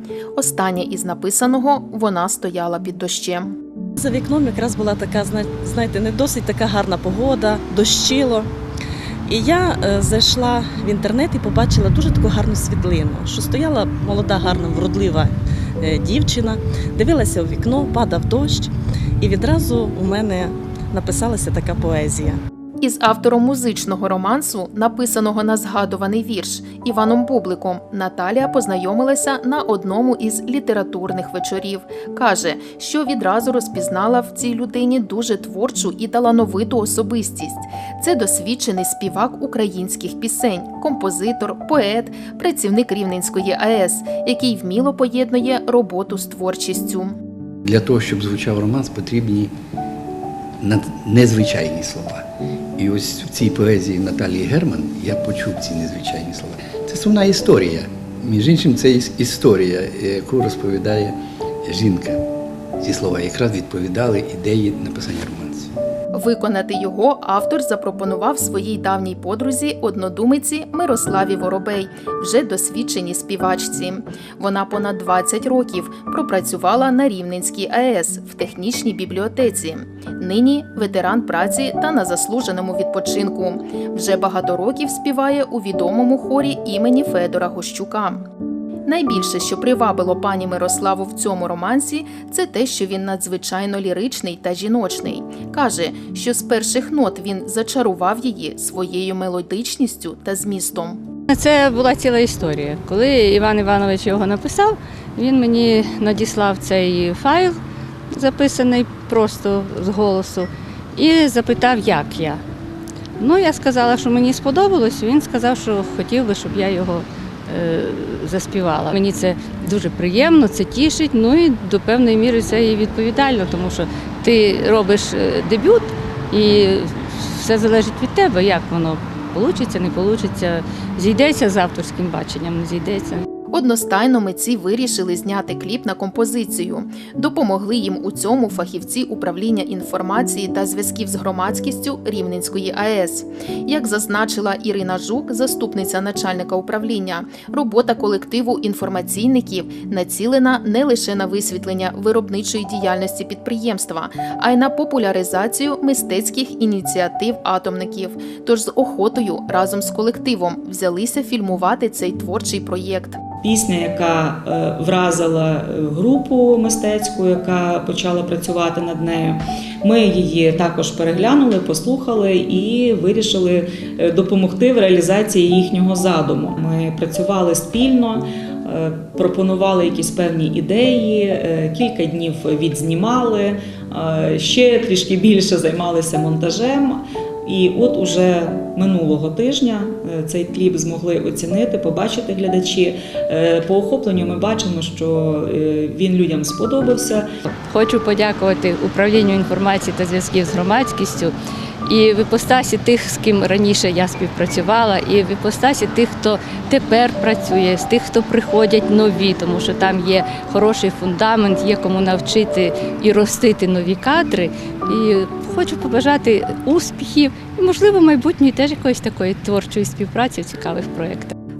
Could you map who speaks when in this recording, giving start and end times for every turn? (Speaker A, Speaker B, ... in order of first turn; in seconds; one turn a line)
Speaker A: 0.3-3.5
Speaker B: 4.0-8.5
Speaker B: 9.2-22.4
Speaker A: 22.8-47.1
Speaker C: 47.6-49.5
Speaker C: 50.6-52.2
Speaker C: 52.8-62.2
Speaker C: 62.8-65.7
Speaker A: 66.1-88.3
Speaker A: 88.8-101.0
Speaker D: 101.3-107.6
Speaker D: 108.1-112.4
Speaker D: 113.2-133.2
Speaker A: 133.5-163.2
Speaker E: 163.4-197.2
Speaker D: 197.5-201.3
Speaker D: 201.8-221.3